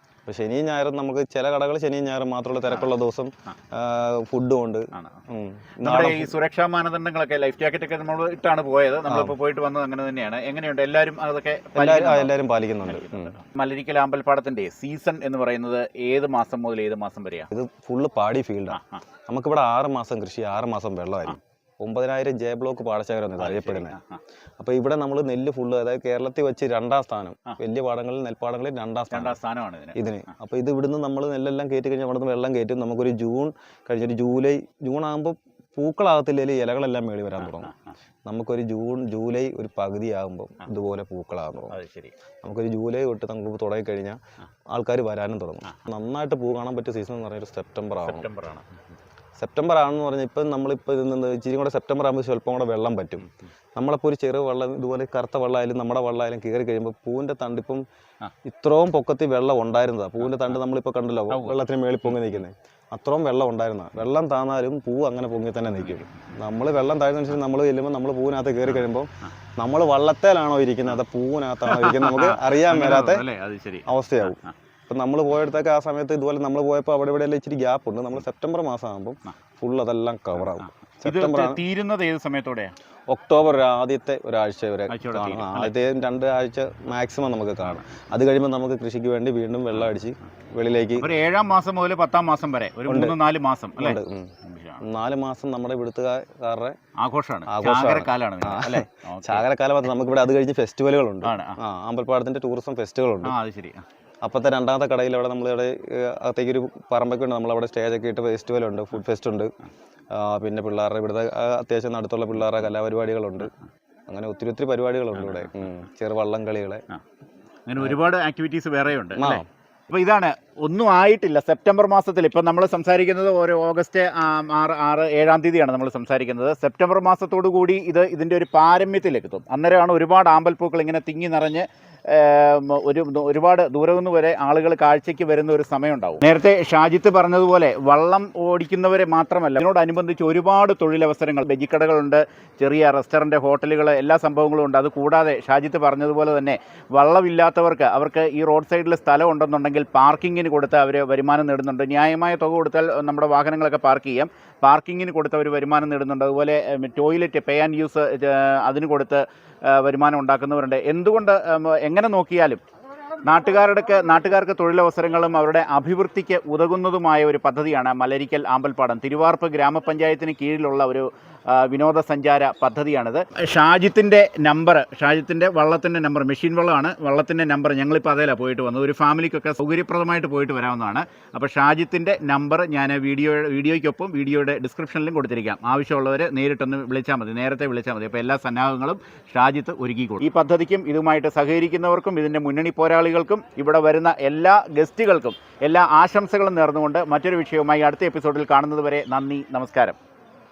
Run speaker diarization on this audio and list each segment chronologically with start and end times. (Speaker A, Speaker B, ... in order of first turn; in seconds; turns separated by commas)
Speaker A: 0.3-6.4, Speaker B: 4.9-5.2, Speaker B: 5.8-12.3, Speaker A: 9.1-9.4, Speaker A: 11.8-13.3, Speaker B: 12.8-17.5, Speaker A: 17.5-24.0, Speaker B: 18.7-19.0, Speaker B: 23.4-24.2, Speaker A: 24.6-29.4, Speaker B: 29.1-30.0, Speaker A: 29.9-37.7, Speaker B: 37.4-37.7, Speaker A: 38.3-41.8, Speaker B: 41.7-42.1, Speaker A: 42.4-44.2, Speaker A: 44.7-48.3, Speaker B: 48.0-48.7, Speaker A: 49.4-57.8, Speaker A: 58.4-73.3, Speaker B: 61.3-62.4, Speaker B: 65.8-66.3, Speaker B: 71.7-74.5, Speaker A: 73.9-81.6, Speaker B: 80.5-82.7, Speaker A: 83.1-91.1, Speaker B: 84.9-85.7, Speaker B: 91.0-94.8, Speaker A: 92.9-93.2, Speaker A: 93.8-96.8, Speaker B: 97.0-99.5, Speaker A: 97.5-103.3, Speaker B: 101.2-101.6, Speaker B: 103.2-103.9, Speaker A: 104.2-109.5, Speaker A: 110.1-113.5, Speaker A: 114.1-116.8, Speaker B: 115.2-115.5, Speaker B: 117.7-162.6, Speaker A: 119.2-119.5, Speaker B: 163.2-200.0